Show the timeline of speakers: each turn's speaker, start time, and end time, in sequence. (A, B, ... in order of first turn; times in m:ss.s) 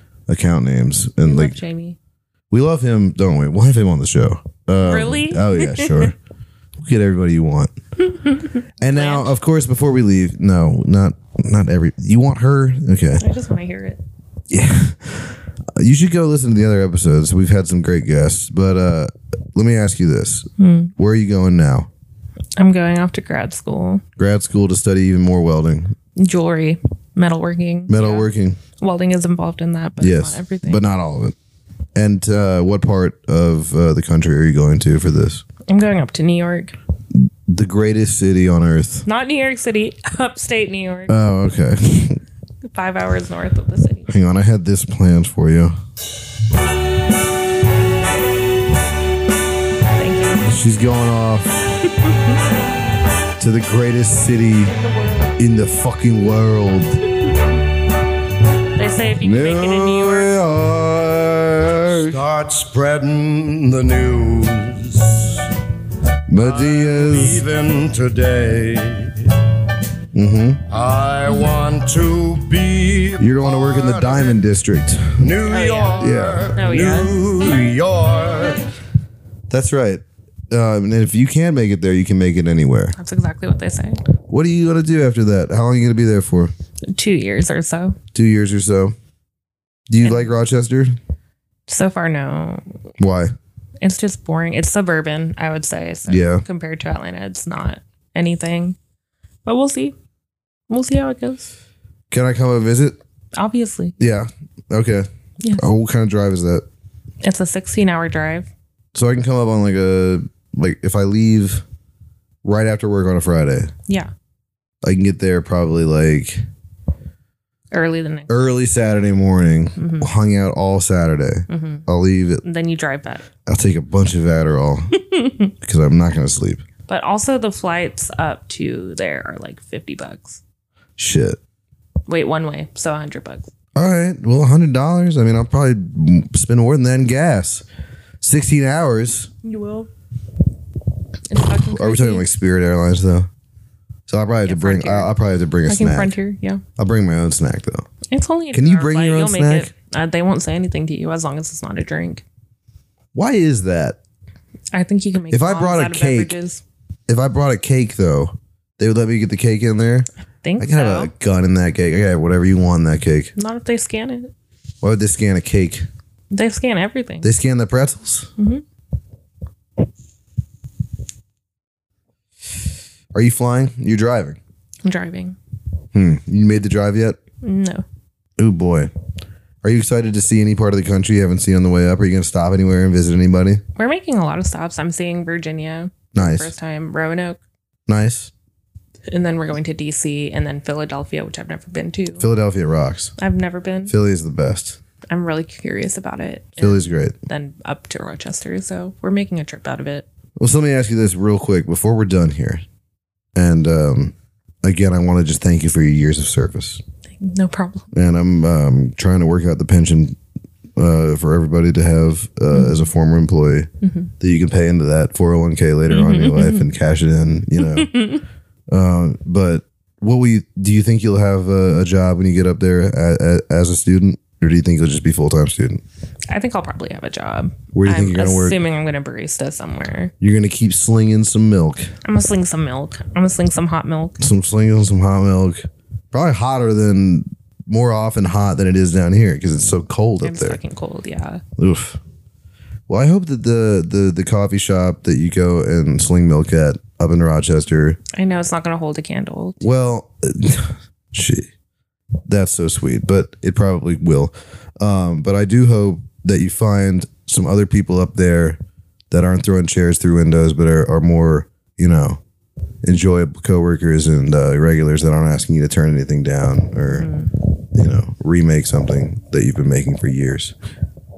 0:00.3-0:01.6 A
0:01.2-0:02.0 B
0:02.5-0:06.1 A
0:04.8-0:06.1 B
0:06.8-0:07.7 A
0:08.0-0:09.3 B
0:08.8-0:13.2 A
0:13.2-0:14.0 B
0:14.5-0:21.9 A
0:20.6-0:20.9 B
0:22.6-0:24.0 B
0:24.2-0:25.9 A
0:26.2-0:30.8 B
0:27.9-0:28.6 A
0:30.0-0:31.3 A
0:31.9-0:35.4 A
0:35.7-0:36.8 B
0:37.5-0:39.0 A
0:39.0-0:41.1 B
0:41.1-0:42.2 A
0:42.6-0:44.1 B
0:44.1-0:45.7 A
0:49.9-0:50.4 B
0:50.4-0:51.7 A
0:52.0-0:52.3 B
0:53.4-0:54.7 A
0:54.7-0:55.3 B
0:55.4-0:57.0 A
0:58.8-1:00.3 B
0:59.2-1:02.2 A
1:01.9-1:05.5 C
1:06.3-1:07.4 A
1:06.4-1:09.3 C
1:10.1-1:10.6 A
1:10.7-1:14.4 C
1:13.2-1:15.3 A
1:15.2-1:18.6 C
1:15.4-1:17.2 B
1:16.0-1:16.5 A
1:19.5-1:23.0 A
1:23.0-1:24.0 B
1:24.3-1:26.5 A
1:26.9-1:28.0 B
1:28.1-1:28.9 A
1:29.9-1:31.0 A
1:30.0-1:30.3 B
1:31.7-1:32.6 B
1:33.0-1:33.3 A
1:33.8-1:38.8 B
1:36.1-1:36.4 A
1:39.4-1:40.0 B
1:40.7-1:41.5 B
1:42.1-1:43.0 A
1:43.4-1:44.0 B
1:44.0-1:46.6 A
1:45.4-1:45.7 B
1:47.2-1:48.5 B
1:48.9-1:51.6 A
1:52.4-1:53.7 A
1:54.8-1:56.4 A
1:57.7-1:58.6 B
1:58.3-2:02.4 A
1:59.8-2:00.1 B
2:01.5-2:01.8 B
2:02.4-2:03.2 B
2:03.4-2:04.9 A
2:05.0-2:05.5 B
2:05.6-2:06.6 A
2:06.9-2:10.4 B
2:11.0-2:11.4 A
2:12.1-2:13.5 B
2:13.8-2:17.6 A
2:18.2-2:19.3 A
2:19.4-2:19.9 B
2:21.3-2:22.3 B
2:21.4-2:23.3 A
2:24.1-2:26.1 A
2:24.4-2:25.1 B
2:25.6-2:26.6 B
2:26.8-2:27.9 A
2:28.1-2:32.2 B
2:28.5-2:29.7 A
2:33.1-2:34.0 A
2:34.7-2:36.6 B
2:35.3-2:36.3 A
2:37.1-2:43.3 A
2:40.4-2:41.1 B
2:43.4-2:44.3 B
2:44.8-2:45.8 A
2:46.3-2:47.3 B
2:47.2-2:48.3 A
2:48.4-2:48.6 B
2:53.1-2:54.4 A
2:54.8-2:55.4 B
2:55.9-2:57.2 A
2:57.4-2:57.8 B
2:58.4-2:58.9 A
2:59.6-3:03.6 A
3:03.8-3:07.4 B
3:06.1-3:06.5 A
3:07.9-3:08.3 A
3:09.1-3:12.3 B
3:12.2-3:13.1 A
3:13.2-3:13.9 B
3:13.9-3:14.8 A
3:15.1-3:20.0 B
3:16.6-3:17.2 A
3:20.4-3:22.6 A
3:23.3-3:26.8 A
3:27.1-3:27.9 B
3:27.9-3:30.2 A
3:30.8-3:33.7 A
3:32.5-3:32.8 B
3:33.8-3:34.1 B
3:34.2-3:37.9 A
3:35.9-3:36.7 B
3:37.6-3:38.2 B
3:38.7-3:45.8 A
3:46.3-3:50.1 B
3:47.7-3:48.6 A
3:50.2-3:51.9 A
3:52.0-3:54.2 B
3:54.2-4:00.6 A
4:00.2-4:01.4 B
4:01.6-4:02.0 A
4:02.9-4:08.0 A
4:08.1-4:09.6 B
4:09.6-4:11.5 A
4:12.3-4:18.6 A
4:19.1-4:22.2 A
4:22.8-4:27.1 A
4:26.9-4:27.3 B
4:27.7-4:30.5 A